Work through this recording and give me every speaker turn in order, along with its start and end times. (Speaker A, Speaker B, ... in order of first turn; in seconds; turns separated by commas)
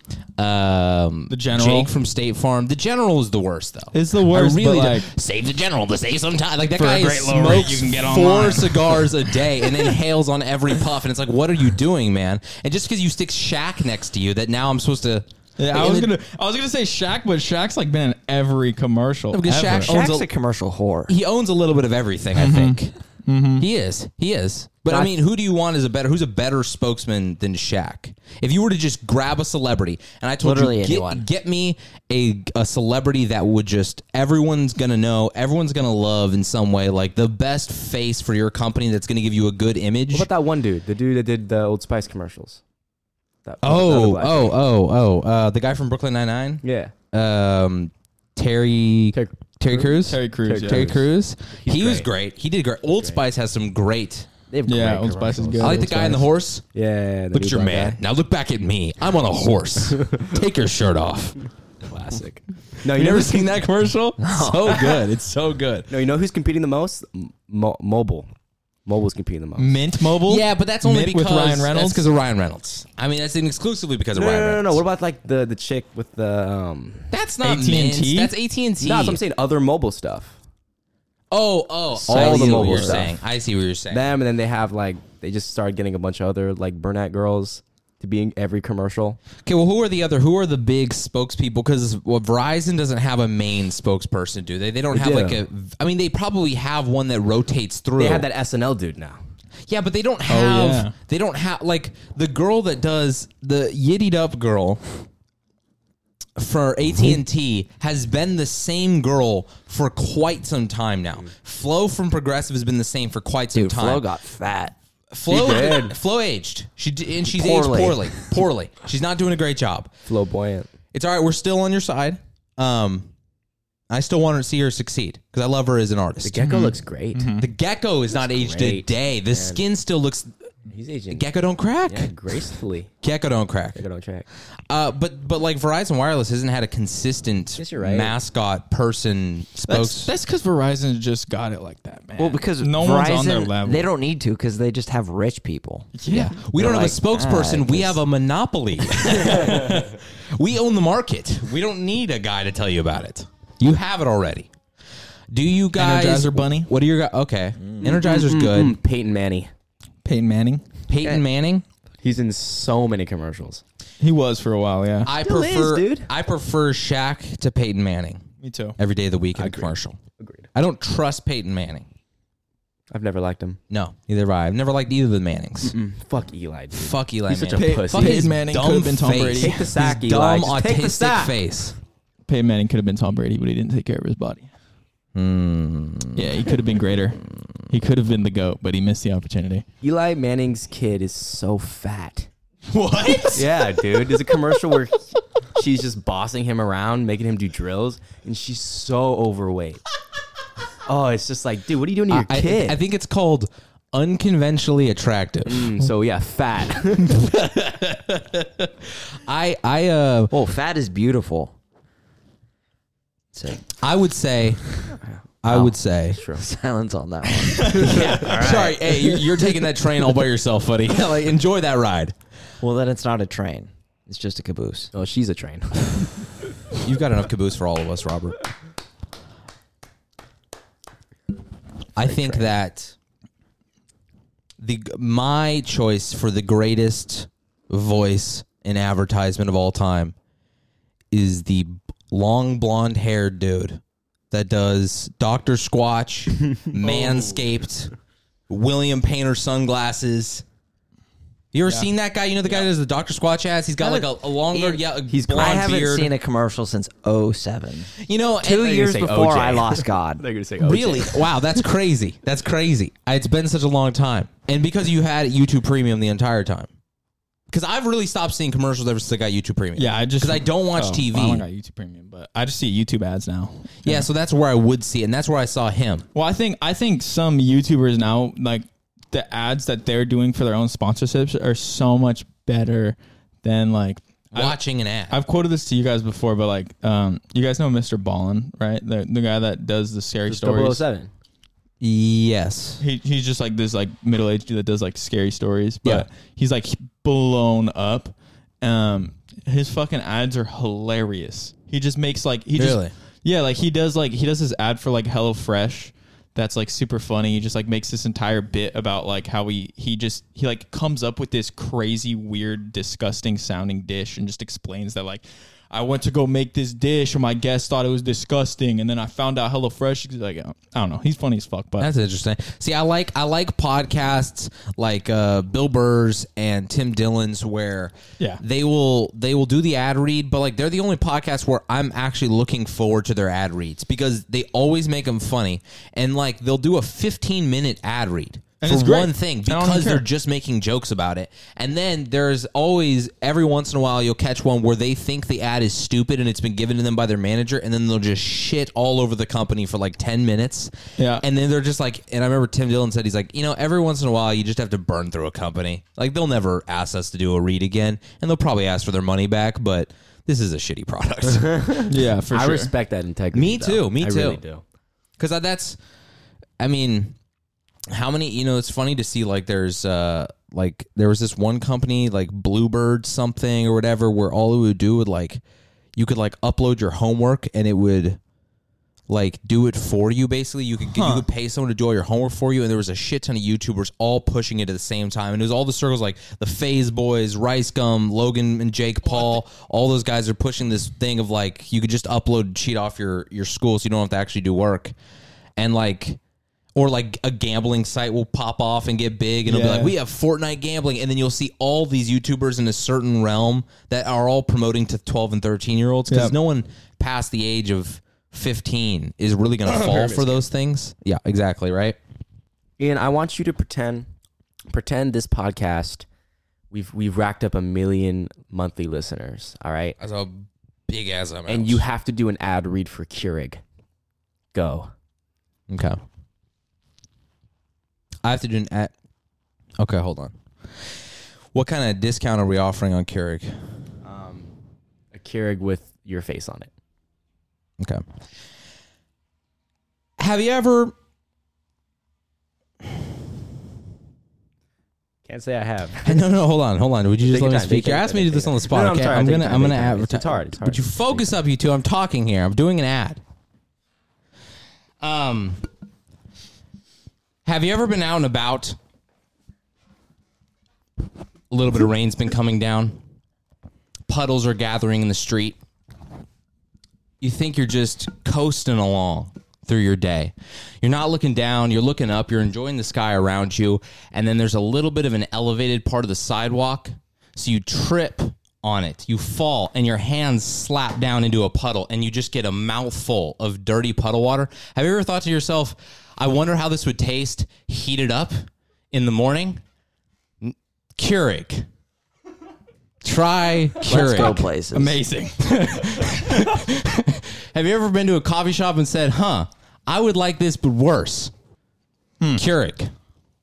Speaker A: 0.4-16.1, Speaker B: 1.3-1.9, Speaker B: 3.9-5.1, Speaker B: 6.7-9.6, Speaker B: 15.6-20.0, Speaker A: 19.3-20.3, Speaker C: 19.8-21.1, Speaker A: 21.1-22.9, Speaker B: 22.4-23.7, Speaker A: 23.6-40.3, Speaker C: 24.9-25.1, Speaker C: 30.4-31.2, Speaker D: 40.1-42.6, Speaker D: 43.4-44.6, Speaker A: 43.6-54.3, Speaker D: 46.6-46.9, Speaker D: 49.1-52.1, Speaker B: 50.0-50.9, Speaker D: 53.0-53.2, Speaker D: 54.5-58.0, Speaker B: 54.7-56.2, Speaker A: 55.6-56.6, Speaker A: 57.3-61.5, Speaker D: 61.9-63.5, Speaker A: 62.9-65.9, Speaker C: 64.2-65.0, Speaker D: 65.9-68.3, Speaker D: 68.8-69.8, Speaker B: 69.6-72.1, Speaker A: 70.2-74.8, Speaker D: 74.1-77.1, Speaker A: 77.1-79.2, Speaker B: 77.4-78.3, Speaker D: 78.8-80.4, Speaker A: 81.3-84.1, Speaker D: 82.0-83.2, Speaker C: 82.1-83.1, Speaker D: 83.9-89.2, Speaker A: 89.5-98.3, Speaker D: 94.9-95.5, Speaker D: 98.0-99.2, Speaker A: 99.7-104.8, Speaker B: 100.3-100.9, Speaker A: 106.4-114.1, Speaker C: 113.5-114.8, Speaker A: 115.1-119.9, Speaker D: 115.3-116.0, Speaker C: 117.2-118.2, Speaker D: 120.1-120.7, Speaker A: 120.9-123.1, Speaker A: 123.9-126.5, Speaker D: 126.2-127.3, Speaker B: 126.4-127.5, Speaker A: 127.4-130.3, Speaker D: 128.1-129.6, Speaker D: 130.7-131.3, Speaker A: 131.1-132.1, Speaker D: 131.9-132.9, Speaker A: 133.0-133.8, Speaker D: 133.8-134.3, Speaker A: 134.7-140.1, Speaker D: 137.6-138.2, Speaker B: 139.7-143.9, Speaker C: 142.2-145.9, Speaker B: 145.9-146.4, Speaker A: 146.1-154.5, Speaker C: 146.5-148.0, Speaker A: 155.3-158.8, Speaker B: 155.7-156.7, Speaker D: 157.8-159.5, Speaker B: 160.0-160.6, Speaker A: 160.9-161.7, Speaker D: 162.0-163.6, Speaker B: 164.0-165.1, Speaker A: 165.1-168.3, Speaker D: 165.1-166.1, Speaker B: 168.4-168.8, Speaker A: 168.8-170.0, Speaker D: 169.3-170.5, Speaker A: 170.5-171.9, Speaker D: 172.9-173.6, Speaker A: 173.7-175.8, Speaker D: 175.6-178.4, Speaker A: 176.8-181.8, Speaker B: 177.5-179.7, Speaker D: 179.3-181.4, Speaker B: 182.3-184.5, Speaker A: 185.2-186.3, Speaker B: 186.2-189.7, Speaker D: 189.8-192.3, Speaker B: 192.7-193.4, Speaker D: 193.3-199.8, Speaker D: 200.9-202.8, Speaker A: 202.1-205.8, Speaker D: 205.5-207.2, Speaker A: 207.0-210.3, Speaker C: 210.3-211.5, Speaker C: 213.3-213.6, Speaker A: 213.8-214.8, Speaker A: 215.4-216.2, Speaker C: 215.5-219.5, Speaker D: 216.1-216.4, Speaker B: 217.5-217.9, Speaker A: 217.7-222.1, Speaker C: 222.6-224.9, Speaker D: 224.9-226.1, Speaker A: 226.8-228.4, Speaker A: 232.0-232.9, Speaker D: 232.0-232.5, Speaker A: 234.6-240.2, Speaker A: 241.1-247.9, Speaker B: 246.8-247.4, Speaker A: 248.5-250.4, Speaker A: 251.5-256.1, Speaker C: 253.8-254.8, Speaker D: 254.5-255.8, Speaker C: 255.3-260.2, Speaker A: 258.0-258.9, Speaker D: 258.5-261.3, Speaker A: 260.6-266.7, Speaker A: 267.5-271.4, Speaker B: 269.8-274.1, Speaker A: 273.8-276.1, Speaker B: 276.1-290.8, Speaker A: 284.3-285.2, Speaker D: 290.3-291.1, Speaker A: 291.8-292.8, Speaker B: 292.8-321.9, Speaker A: 302.6-302.9, Speaker A: 321.8-361.9, Speaker B: 338.6-340.1, Speaker B: 351.0-351.2, Speaker D: 361.4-364.6, Speaker B: 361.9-362.7, Speaker A: 363.3-364.4, Speaker A: 365.2-365.8, Speaker A: 366.6-367.2, Speaker A: 367.9-375.4, Speaker A: 376.0-378.2, Speaker A: 379.1-394.9, Speaker B: 380.9-381.3, Speaker A: 395.6-396.2, Speaker A: 396.8-412.0, Speaker B: 399.4-400.0, Speaker B: 406.1-406.4, Speaker D: 409.6-410.5, Speaker D: 412.8-414.1, Speaker D: 414.7-416.1, Speaker D: 416.7-420.0, Speaker A: 420.0-421.8, Speaker D: 421.5-423.6, Speaker D: 424.5-424.9, Speaker A: 425.7-426.0, Speaker A: 428.2-428.9, Speaker A: 429.8-430.9, Speaker A: 431.5-433.5, Speaker D: 434.0-434.5, Speaker D: 435.1-436.7, Speaker A: 440.2-440.9, Speaker D: 445.2-446.3, Speaker A: 446.0-453.2, Speaker D: 447.2-451.4, Speaker A: 455.0-455.6, Speaker A: 457.4-458.8, Speaker A: 461.5-463.0, Speaker A: 464.1-465.6, Speaker A: 467.2-489.6, Speaker A: 490.4-491.7, Speaker A: 493.0-494.5, Speaker C: 493.8-495.0, Speaker B: 494.7-496.1, Speaker A: 495.4-501.3, Speaker A: 502.4-502.9